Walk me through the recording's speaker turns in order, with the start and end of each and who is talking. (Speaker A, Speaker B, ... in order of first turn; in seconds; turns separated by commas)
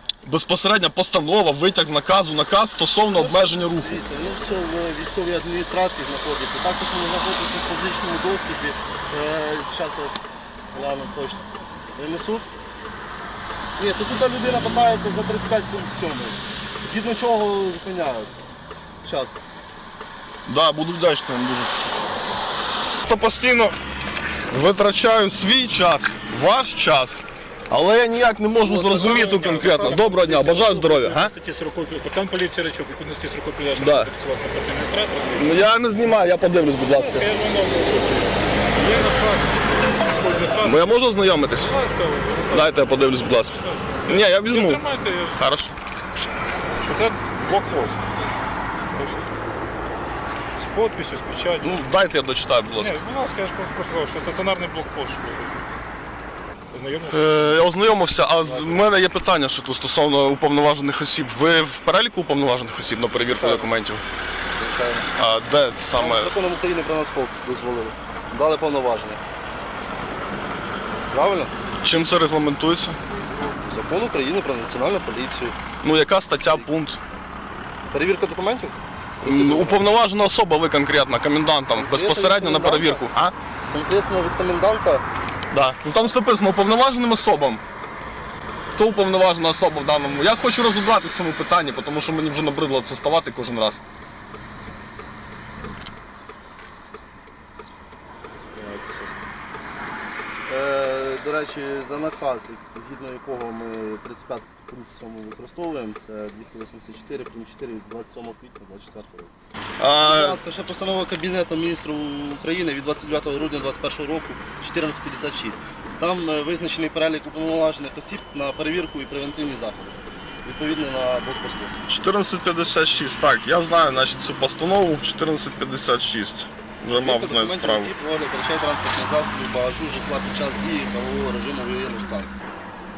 Speaker A: 0.2-4.0, Speaker B: 3.1-10.2, Speaker B: 10.7-12.5, Speaker B: 13.8-18.4, Speaker B: 19.0-19.4, Speaker A: 20.5-21.7, Speaker A: 23.0-23.8, Speaker A: 24.5-31.3, Speaker C: 28.7-35.6, Speaker B: 28.7-30.2, Speaker A: 33.8-34.1, Speaker A: 35.4-37.3, Speaker C: 36.9-40.9, Speaker A: 40.6-41.8, Speaker C: 41.7-45.4, Speaker A: 42.5-44.8, Speaker A: 45.4-45.7, Speaker C: 46.8-48.0, Speaker C: 48.9-49.3, Speaker C: 50.6-51.9, Speaker A: 51.6-52.9, Speaker C: 52.8-55.6, Speaker C: 56.7-57.6, Speaker A: 57.1-64.0, Speaker B: 58.5-58.8, Speaker B: 63.4-63.7, Speaker B: 64.6-65.1, Speaker A: 65.2-66.3, Speaker B: 66.0-69.2, Speaker B: 71.1-71.5, Speaker A: 71.8-73.0, Speaker B: 73.3-75.6, Speaker A: 75.8-77.0, Speaker B: 76.4-76.7, Speaker B: 77.9-79.9, Speaker A: 79.2-83.3, Speaker B: 81.7-83.1, Speaker B: 83.7-85.1, Speaker A: 85.5-87.6, Speaker A: 88.7-93.8, Speaker B: 98.5-99.3, Speaker B: 100.5-109.3, Speaker A: 109.8-110.4, Speaker B: 110.0-121.8, Speaker A: 121.9-127.9, Speaker B: 127.0-132.4